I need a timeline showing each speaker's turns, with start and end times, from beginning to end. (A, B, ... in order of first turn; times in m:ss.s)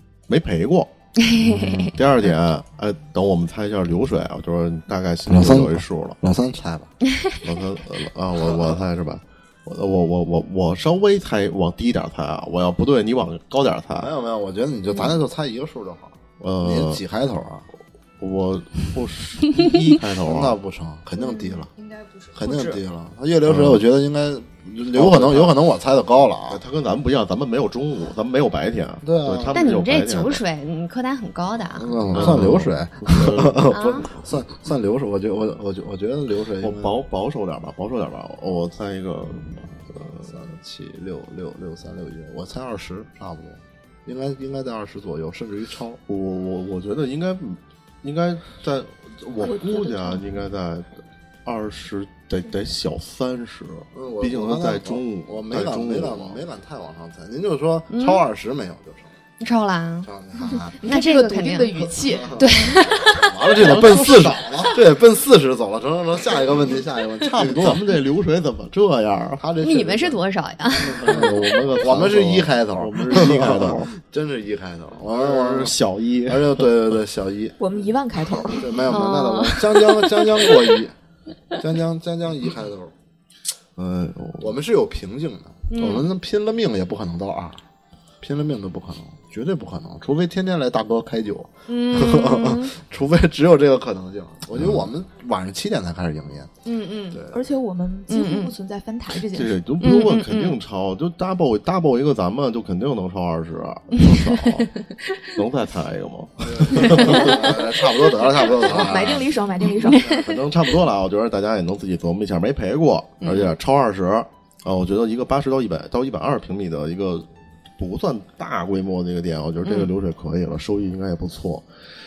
0:00.3-0:06.2 A
0:01.2-0:02.3 B
0:05.3-0:06.9 C
0:07.1-0:07.4 B
0:07.4-0:14.1 A
0:08.4-0:08.8 C
0:14.0-0:17.7 C
0:16.4-0:17.0 A
0:18.2-0:20.6 A
0:20.2-0:21.7 C
0:21.2-0:21.6 B
0:21.8-0:22.8 D
0:22.3-0:26.6 C
0:23.5-0:23.8 A
0:24.9-0:25.5 A
0:26.5-0:30.4 A
0:29.0-0:29.6 C
0:29.5-0:32.4 B
0:31.8-0:37.0 C
0:32.1-0:33.7 A
0:33.7-0:34.1 B
0:36.6-0:40.4 A
0:39.7-0:46.0 C
0:46.1-0:56.4 A
0:49.4-0:50.2 D
0:53.9-0:59.2 C
0:57.9-0:58.2 B
0:59.4-1:00.1 B
1:00.0-1:00.8 C
1:00.7-1:02.5 D
1:00.8-1:04.0 B
1:02.1-1:07.9 C
1:03.6-1:04.6 A
1:07.3-1:09.4 A
1:09.4-1:17.6 C
1:09.6-1:11.6 B
1:11.0-1:13.9 A
1:15.1-1:16.7 A
1:17.6-1:18.8 D
1:18.2-1:21.0 C
1:18.9-1:20.6 B
1:21.6-1:22.9 C
1:23.8-1:24.5 A
1:24.4-1:27.6 C
1:25.7-1:26.1 B
1:28.2-1:36.5 C
1:31.7-1:32.8 B
1:34.6-1:34.8 A
1:36.6-1:37.2 B
1:37.1-1:37.4 C
1:37.3-1:39.6 D
1:38.1-1:38.5 B
1:39.3-1:44.7 A
1:39.8-1:40.6 B
1:44.0-1:45.3 B
1:45.3-1:47.5 A
1:46.4-1:49.3 C
1:46.8-1:47.3 B
1:48.4-1:50.1 D
1:49.9-1:50.3 B
1:50.0-1:50.3 C
1:50.0-1:57.3 A
1:53.2-1:53.5 B
1:57.8-2:01.7 A
1:59.6-1:59.9 B